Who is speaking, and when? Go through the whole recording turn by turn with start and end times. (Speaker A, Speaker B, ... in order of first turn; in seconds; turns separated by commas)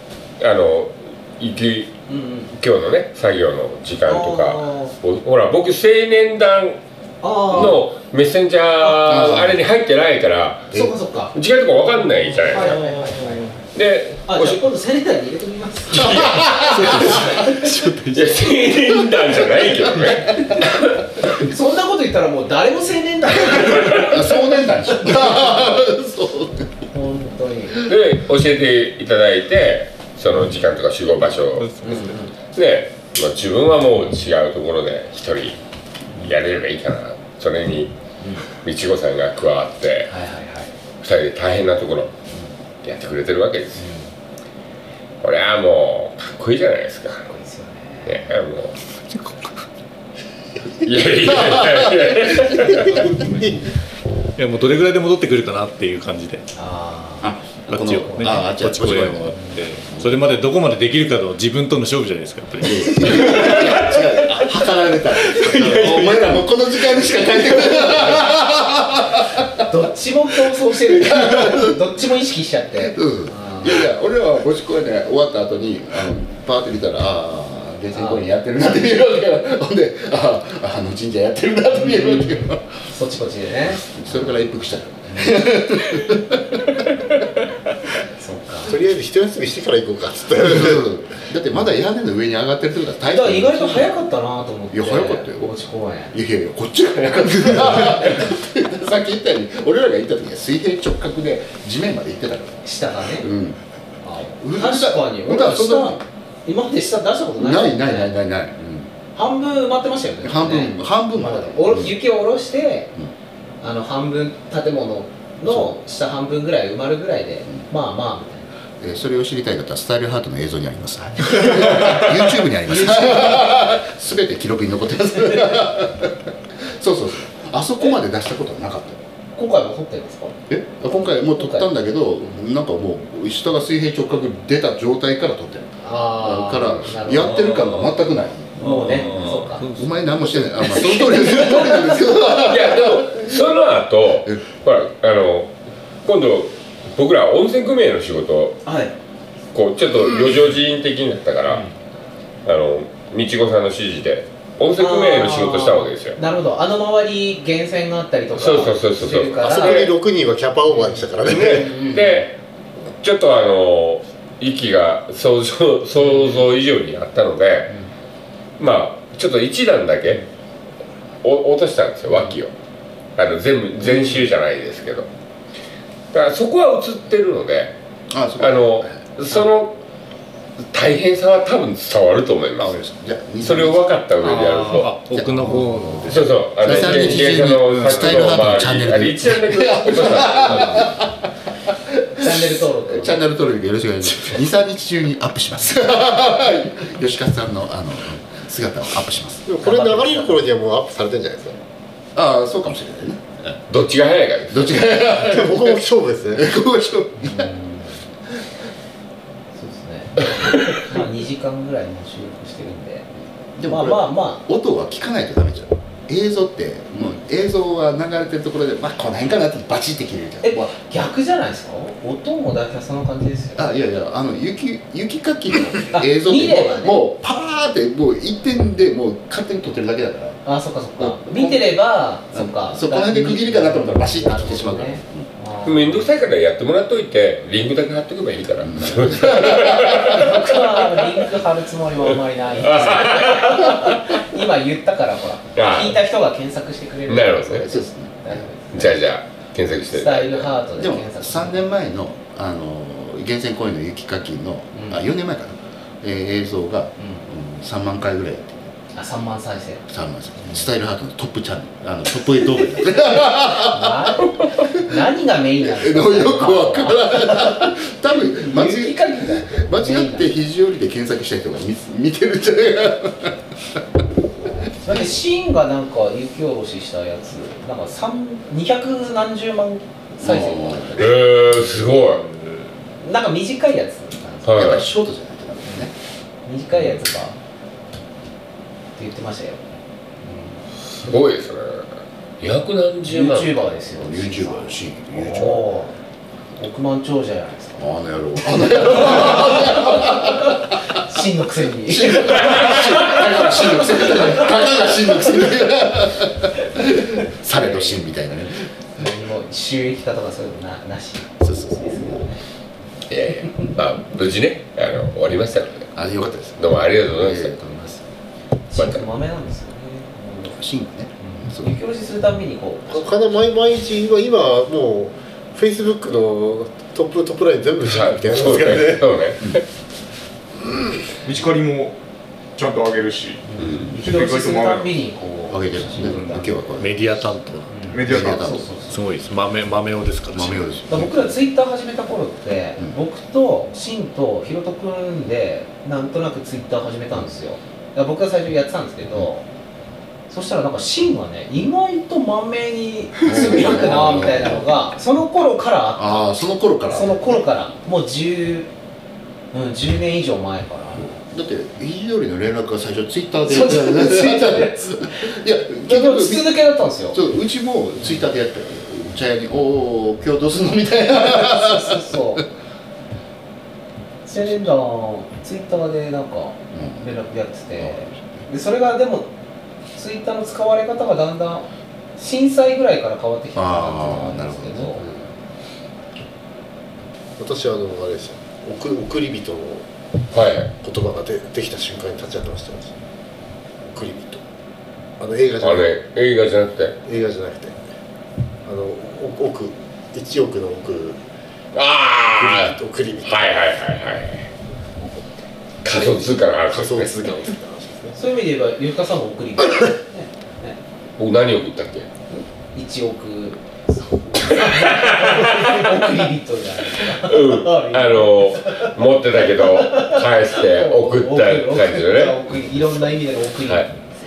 Speaker A: 0.4-1.9, Speaker B: 2.1-2.5, Speaker A: 2.5-6.8, Speaker B: 4.1-5.0, Speaker B: 7.2-7.8, Speaker A: 7.4-10.7, Speaker B: 8.8-9.3, Speaker C: 9.0-9.6, Speaker B: 10.7-11.3, Speaker A: 11.3-12.7, Speaker B: 12.4-13.6, Speaker A: 13.7-14.6, Speaker B: 14.3-16.3, Speaker A: 15.9-17.4, Speaker C: 15.9-16.9, Speaker D: 16.5-18.4, Speaker B: 16.8-17.5, Speaker A: 18.1-21.0, Speaker C: 19.2-20.6, Speaker B: 21.4-24.2, Speaker C: 23.9-26.7, Speaker B: 26.9-27.9, Speaker A: 27.8-31.8, Speaker D: 31.5-32.0, Speaker B: 31.8-32.3, Speaker A: 32.5-35.6, Speaker A: 36.1-37.9, Speaker A: 38.6-40.1, Speaker B: 40.0-40.7, Speaker A: 41.0-42.1, Speaker A: 42.8-43.8, Speaker B: 43.8-44.0, Speaker A: 45.2-47.3, Speaker B: 47.2-48.4, Speaker A: 48.0-48.7, Speaker A: 50.8-52.9, Speaker E: 52.1-53.7, Speaker D: 52.8-53.2, Speaker D: 54.4-56.4, Speaker B: 56.5-57.3, Speaker C: 57.2-60.2, Speaker D: 57.7-64.0, Speaker B: 58.0-58.4, Speaker B: 59.3-59.6, Speaker C: 62.6-69.6, Speaker D: 65.3-66.4, Speaker B: 69.7-73.8, Speaker C: 71.2-71.7, Speaker C: 72.8-82.8, Speaker B: 77.9-78.3, Speaker B: 81.7-83.9, Speaker C: 83.7-86.6, Speaker B: 88.1-88.8, Speaker E: 88.7-90.8, Speaker C: 90.4-93.9, Speaker B: 93.1-96.1, Speaker C: 94.7-95.5, Speaker C: 96.1-102.6, Speaker B: 102.6-103.3, Speaker C: 103.1-103.6, Speaker B: 104.0-108.1, Speaker C: 104.4-106.0, Speaker C: 107.3-108.9, Speaker B: 109.1-112.9, Speaker C: 110.2-112.0, Speaker B: 113.6-118.5, Speaker C: 115.5-115.8, Speaker C: 118.8-129.0, Speaker B: 122.7-123.5, Speaker B: 129.3-130.3, Speaker C: 130.5-143.3, Speaker B: 131.4-131.7, Speaker B: 135.8-139.7, Speaker D: 138.6-140.0, Speaker B: 140.8-141.8, Speaker A: 142.4-145.5, Speaker A: 146.0-148.6, Speaker B: 148.6-148.9, Speaker A: 149.5-151.7, Speaker A: 152.4-156.2, Speaker B: 154.8-159.8, Speaker A: 158.3-159.9, Speaker E: 159.4-161.8, Speaker B: 160.7-162.2, Speaker A: 161.3-162.4, Speaker A: 163.0-167.7, Speaker B: 166.0-166.5, Speaker A: 168.6-170.2, Speaker A: 171.2-172.5, Speaker A: 173.2-175.1, Speaker A: 176.1-177.7, Speaker C: 178.1-179.0, Speaker A: 178.4-179.7, Speaker A: 180.6-182.8, Speaker C: 182.6-183.9, Speaker A: 183.4-184.9, Speaker D: 184.2-188.4, Speaker C: 185.1-199.4, Speaker A: 186.1-191.0, Speaker B: 192.2-193.2, Speaker E: 199.4-201.6, Speaker B: 199.6-200.5, Speaker C: 202.1-203.6, Speaker A: 203.7-205.0, Speaker C: 204.5-207.5, Speaker E: 205.1-206.5, Speaker B: 207.2-207.9, Speaker B: 209.5-213.1, Speaker C: 213.6-220.7, Speaker B: 213.7-214.4, Speaker B: 220.4-223.7, Speaker C: 223.6-230.4, Speaker B: 225.9-227.0, Speaker B: 230.4-236.1, Speaker C: 231.0-231.7, Speaker C: 232.3-235.3, Speaker A: 235.6-240.6, Speaker C: 238.6-239.9, Speaker B: 239.8-249.0, Speaker A: 242.6-244.0, Speaker A: 245.5-246.0, Speaker A: 247.1-247.7, Speaker C: 247.5-248.5, Speaker A: 248.7-250.6, Speaker B: 249.9-251.6, Speaker C: 250.8-258.7, Speaker B: 254.7-255.0, Speaker B: 258.9-259.8, Speaker C: 259.9-264.9, Speaker B: 262.6-270.3, Speaker C: 265.7-275.2, Speaker B: 274.8-281.1, Speaker C: 280.2-281.1, Speaker A: 281.0-282.2, Speaker D: 282.1-282.5, Speaker B: 283.0-284.7, Speaker A: 284.4-284.9, Speaker C: 284.5-285.9, Speaker B: 286.4-287.4, Speaker B: 288.9-289.6, Speaker B: 290.2-290.6, Speaker A: 290.9-291.9, Speaker A: 292.4-293.6, Speaker B: 293.1-295.9, Speaker C: 293.9-295.8, Speaker B: 296.6-297.9, Speaker C: 297.8-300.6, Speaker B: 298.9-300.3, Speaker B: 300.9-303.0, Speaker C: 301.9-308.7, Speaker B: 307.5-308.0, Speaker B: 309.0-312.4, Speaker C: 311.4-312.3, Speaker A: 313.1-315.9, Speaker C: 315.9-318.0, Speaker A: 316.6-317.5, Speaker B: 318.7-320.6, Speaker A: 318.7-319.1, Speaker C: 320.5-321.7, Speaker B: 321.2-323.4, Speaker E: 322.9-329.1, Speaker A: 327.8-329.6, Speaker F: 331.2-332.0, Speaker F: 332.6-335.0, Speaker B: 333.4-336.4, Speaker A: 333.6-333.9, Speaker C: 335.5-337.2, Speaker D: 336.0-337.9, Speaker B: 337.7-339.0, Speaker F: 337.9-338.6, Speaker C: 338.0-338.7, Speaker D: 338.9-340.7, Speaker C: 340.3-341.4, Speaker B: 340.9-349.4, Speaker B: 350.3-356.2, Speaker C: 353.2-354.7, Speaker C: 355.9-357.4, Speaker B: 356.9-358.7, Speaker B: 359.5-361.1, Speaker C: 360.9-366.6, Speaker B: 363.5-365.3, Speaker B: 365.9-367.2, Speaker C: 367.1-372.4, Speaker B: 371.1-372.4, Speaker B: 374.2-379.3, Speaker C: 376.7-377.1, Speaker C: 377.8-378.4, Speaker B: 379.9-385.0, Speaker C: 383.5-385.1, Speaker E: 387.4-389.8, Speaker A: 390.3-390.7, Speaker E: 390.8-392.9, Speaker E: 393.9-394.4, Speaker E: 395.2-395.9, Speaker A: 395.6-396.9, Speaker E: 397.0-397.8, Speaker E: 398.6-401.2, Speaker A: 401.7-404.5, Speaker E: 402.2-403.5, Speaker A: 405.8-407.2, Speaker E: 405.8-408.2, Speaker B: 408.1-410.8, Speaker A: 411.2-412.1, Speaker B: 412.3-418.9, Speaker A: 414.6-415.9, Speaker A: 417.1-422.4, Speaker B: 419.5-424.0